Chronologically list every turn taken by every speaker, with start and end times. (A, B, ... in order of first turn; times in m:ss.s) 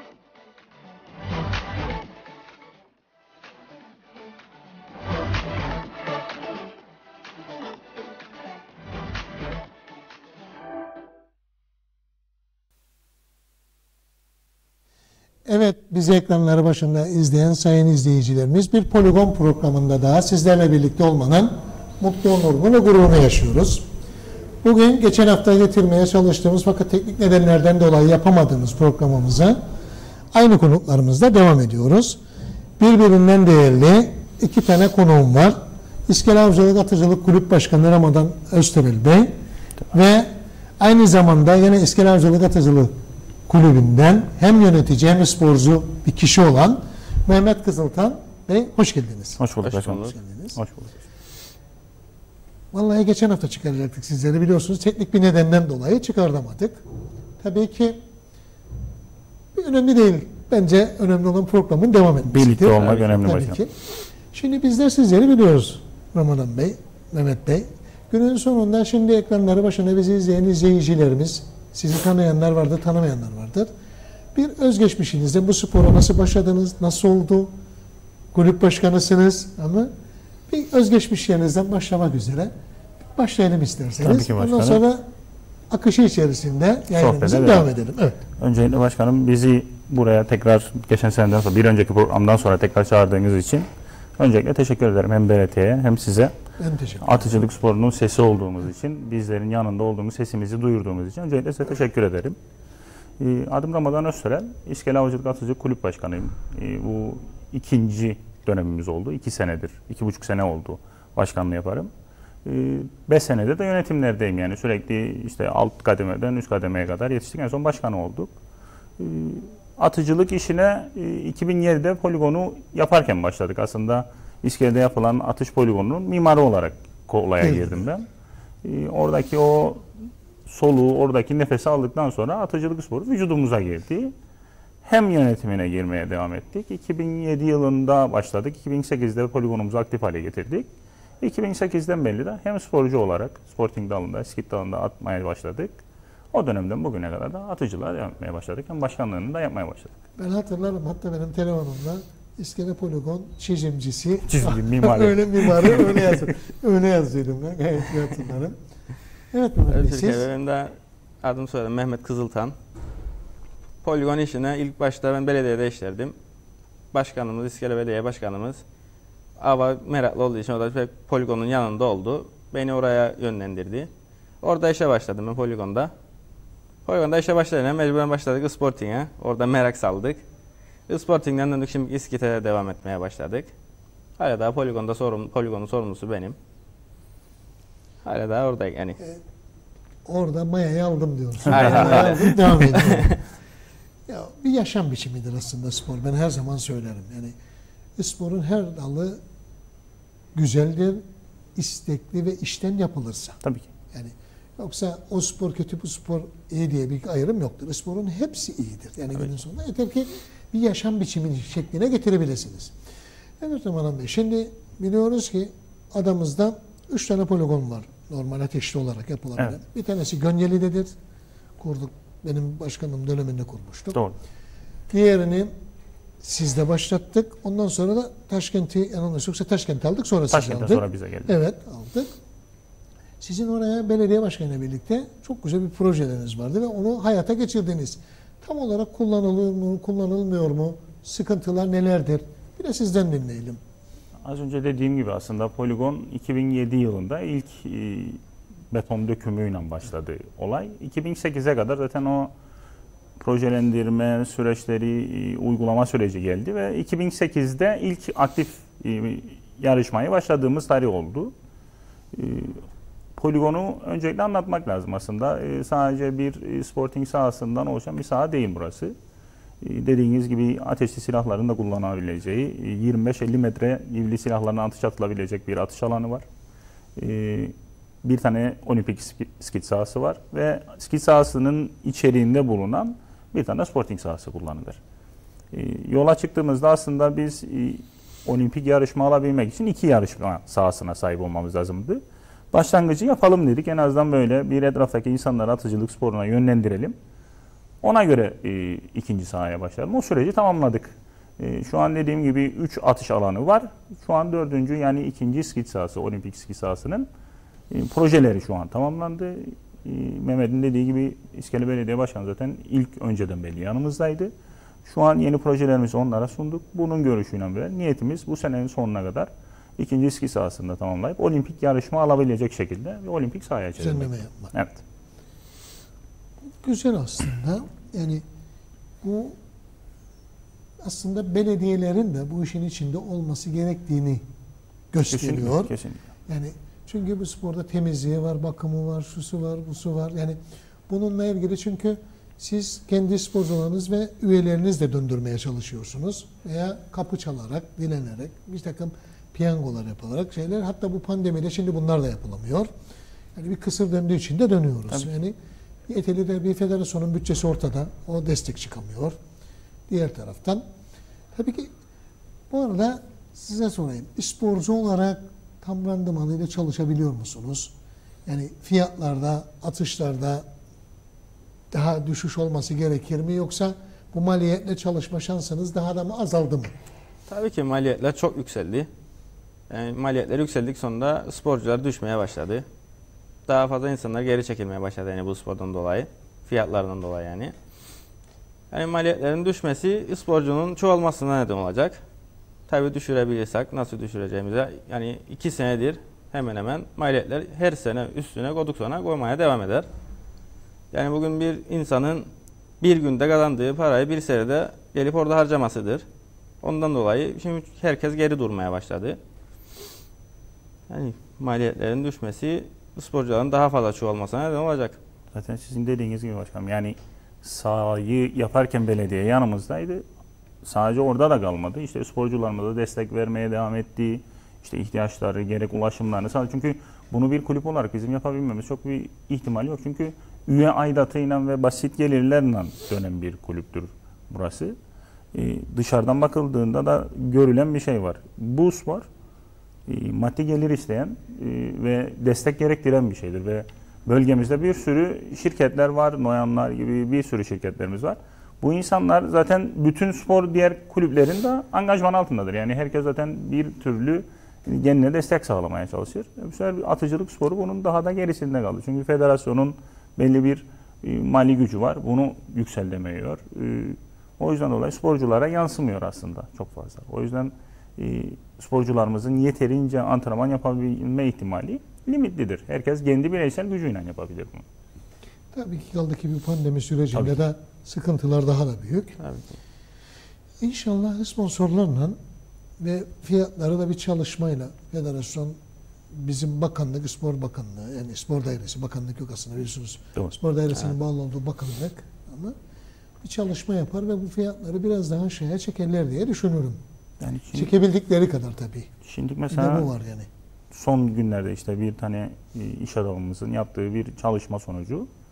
0:15.4-0:23.8 A
0:24.6-0:29.6 A
0:30.3-0:32.2 A
0:32.8-0:39.3 A
0:39.9-0:42.9 A
0:43.5-0:49.4 A
0:49.4-0:51.0 B
0:49.6-0:50.1 C
0:49.9-0:50.6 A
0:52.7-0:56.8 A
0:57.4-0:58.0 A
0:59.5-1:13.7 A
1:02.3-1:03.6 B
1:14.3-1:17.5 A
1:18.3-1:19.9 A
1:20.5-1:22.5 A
1:23.1-1:25.0 A
1:24.0-1:24.8 B
1:25.7-1:28.2 A
1:27.0-1:27.7 B
1:28.4-1:33.7 B
1:34.2-1:36.3 B
1:36.6-1:37.4 A
1:37.0-1:42.4 B
1:43.2-1:51.9 B
1:52.4-1:58.3 B
1:59.0-2:08.1 B
2:07.4-2:07.9 A
2:08.6-2:09.9 B
2:10.4-2:14.1 B
2:14.8-2:20.7 B
2:21.2-2:25.7 B
2:26.3-2:30.0 B
2:30.2-2:38.6 A
2:34.2-2:36.3 B
2:39.3-2:40.3 A
2:39.7-2:42.6 C
2:43.8-2:46.1 C
2:46.9-2:48.6 C
2:49.4-2:53.9 C
2:54.4-2:55.9 C
2:56.8-3:00.2 C
3:00.9-3:03.5 C
3:04.2-3:06.4 C
3:08.0-3:09.0 C
3:10.0-3:13.2 A
3:11.5-3:13.2 C
3:11.5-3:12.0 B
3:14.1-3:17.3 A
3:18.0-3:19.2 A
3:20.3-3:21.0 A
3:21.5-3:23.4 A
3:23.4-3:23.7 B
3:23.9-3:32.7 A
3:33.4-3:40.9 A
3:41.6-3:44.0 A
3:44.9-3:45.5 A
3:46.2-3:52.1 A
3:50.3-3:51.4 B
3:53.2-4:03.6 A
4:04.2-4:08.2 B
4:08.7-4:12.3 B
4:13.2-4:21.3 B
4:22.1-4:22.6 B
4:23.2-4:28.9 B
4:29.6-4:36.2 B
4:37.0-4:44.8 B
4:45.5-4:56.9 B
4:57.8-5:07.1 B
5:07.7-5:14.3 B
5:14.8-5:24.8 B
5:23.8-5:24.5 A
5:26.4-5:28.2 A
5:29.0-5:29.4 A
5:30.8-5:34.3 A
5:34.9-5:35.7 A
5:35.1-5:36.0 B
5:36.3-5:52.7 A
5:53.3-5:55.4 A
5:55.9-5:59.2 A
5:59.9-6:00.6 A
6:01.3-6:01.7 A
6:02.5-6:07.7 A
6:08.2-6:10.5 A
6:11.7-6:16.7 A
6:17.3-6:18.9 C
6:19.7-6:22.6 C
6:23.5-6:27.5 C
6:28.7-6:32.0 C
6:32.7-6:39.9 C
6:40.9-6:42.3 C
6:42.8-6:46.0 C
6:46.6-6:49.2 C
6:50.9-6:55.0 C
6:55.3-7:00.0 B
7:00.6-7:14.7 B
7:15.3-7:19.1 B
7:19.9-7:54.6 B
7:55.5-7:59.2 A
7:57.1-7:57.4 B
7:59.2-7:59.6 C
8:00.6-8:02.2 A
8:02.8-8:05.6 A
8:06.1-8:12.5 A
8:13.2-8:16.8 A
8:17.2-8:17.7 B
8:17.5-8:18.9 A
8:19.0-8:19.9 B
8:19.5-8:20.3 A
8:20.7-8:25.1 B